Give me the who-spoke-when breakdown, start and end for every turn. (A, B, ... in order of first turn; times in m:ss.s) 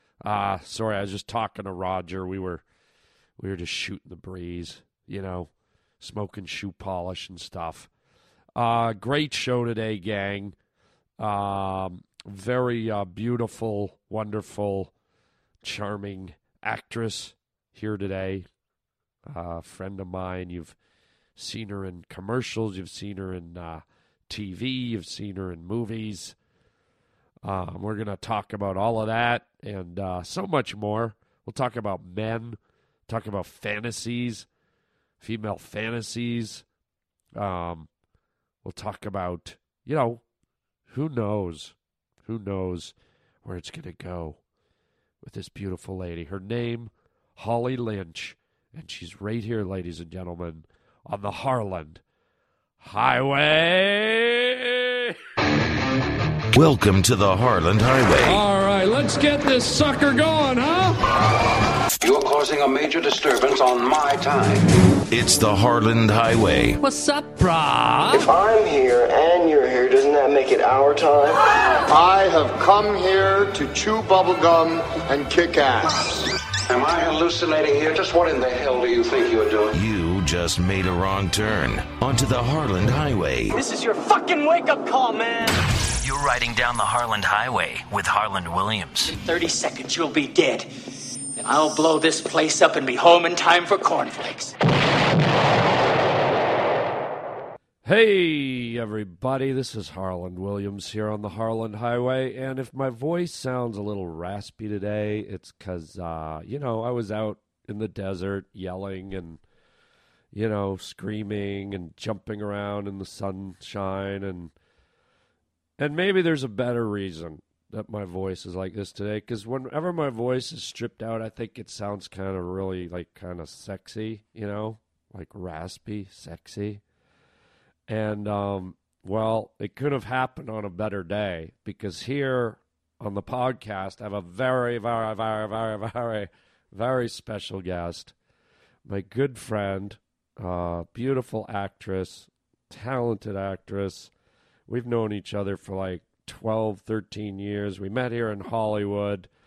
0:00.2-0:02.6 A
0:03.4-0:07.9 A
0:08.6-0:10.6 A
0:11.2-0:14.9 A
0:15.6-0:18.5 A
0:19.3-0:20.8 A
0:21.4-0:26.4 A
0:27.4-0:34.5 A
0:35.2-0:36.6 A
0:37.4-0:37.9 A
0:38.6-0:40.2 A
0:40.9-0:44.4 A
0:45.2-0:52.0 A
0:52.8-0:55.2 A
0:56.5-0:58.4 B
0:58.2-1:01.0 A
1:02.0-1:04.7 C
1:05.1-1:06.8 B
1:06.8-1:08.3 A
1:08.1-1:11.4 D
1:11.9-1:16.0 E
1:16.0-1:19.8 C
1:19.7-1:23.6 B
1:23.5-1:25.6 F
1:26.0-1:29.1 G
1:29.1-1:30.7 F
1:31.4-1:34.6 F
1:37.8-1:49.4 A
1:50.3-1:54.5 A
1:55.8-2:06.8 A
2:07.9-2:18.1 A
2:18.9-2:24.1 A
2:24.7-2:29.3 A